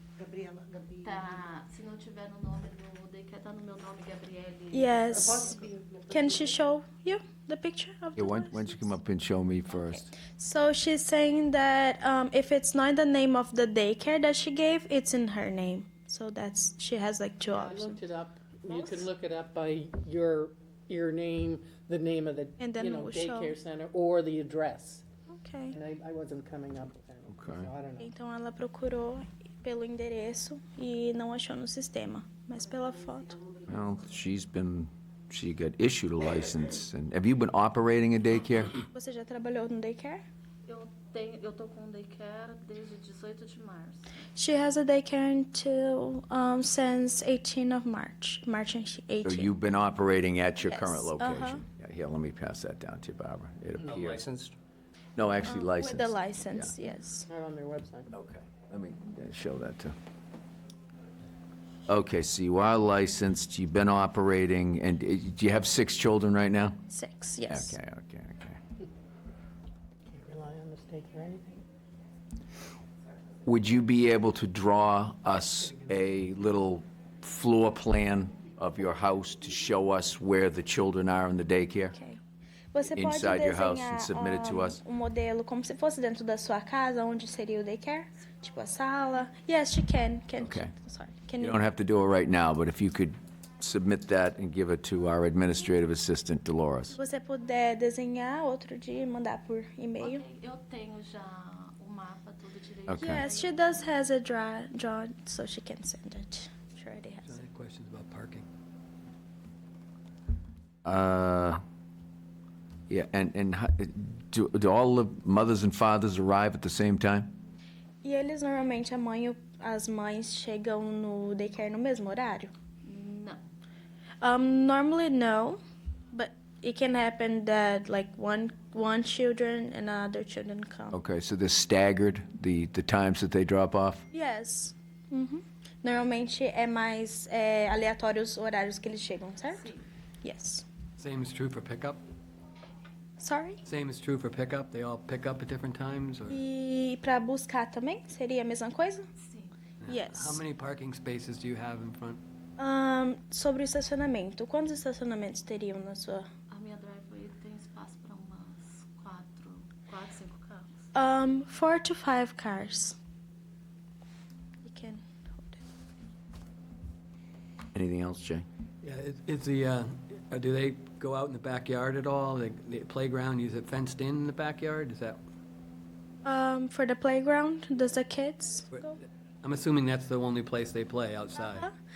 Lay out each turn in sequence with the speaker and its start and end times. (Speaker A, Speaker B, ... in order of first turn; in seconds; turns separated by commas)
Speaker A: 0.2-1.1, Speaker B: 1.0-5.7, Speaker C: 4.7-5.5, Speaker A: 5.3-6.4, Speaker C: 6.1-8.9, Speaker D: 8.2-10.1, Speaker C: 9.7-18.0, Speaker E: 17.5-25.1, Speaker C: 18.7-19.1, Speaker C: 22.6-23.6, Speaker C: 25.3-25.8, Speaker E: 25.7-28.1, Speaker D: 27.3-27.7, Speaker C: 28.0-33.4, Speaker A: 33.4-33.6, Speaker D: 33.7-38.8, Speaker C: 38.8-40.2, Speaker B: 40.7-44.1, Speaker C: 44.4-49.5, Speaker D: 49.2-54.5, Speaker C: 50.6-51.6, Speaker D: 55.2-56.7, Speaker C: 55.5-57.3, Speaker E: 57.3-58.1, Speaker D: 58.1-60.0, Speaker D: 61.9-66.8, Speaker C: 66.9-67.8, Speaker D: 67.5-68.6, Speaker E: 70.1-71.7, Speaker D: 73.5-82.0, Speaker C: 82.0-82.2, Speaker C: 82.7-91.6, Speaker D: 82.9-84.8, Speaker D: 90.4-90.7, Speaker D: 91.4-97.0, Speaker C: 96.9-100.2, Speaker B: 100.0-103.9, Speaker D: 102.9-103.2, Speaker C: 103.0-107.4, Speaker F: 107.2-108.5, Speaker D: 110.8-111.6, Speaker D: 112.9-117.3, Speaker C: 118.0-122.5, Speaker B: 122.8-123.4, Speaker C: 124.2-125.6, Speaker C: 126.1-130.9, Speaker D: 130.9-134.1, Speaker C: 134.1-139.7, Speaker B: 139.5-139.9, Speaker C: 140.2-140.6, Speaker F: 141.0-142.0, Speaker C: 143.2-143.6, Speaker F: 143.7-146.4, Speaker C: 146.3-149.1, Speaker B: 149.2-149.6, Speaker F: 149.8-152.2, Speaker C: 149.9-150.4, Speaker C: 152.6-156.3, Speaker B: 156.5-160.9, Speaker C: 160.9-163.0, Speaker C: 164.6-165.6, Speaker D: 167.7-168.5, Speaker F: 168.8-175.2, Speaker C: 176.2-178.9, Speaker F: 178.7-181.7, Speaker C: 181.4-181.7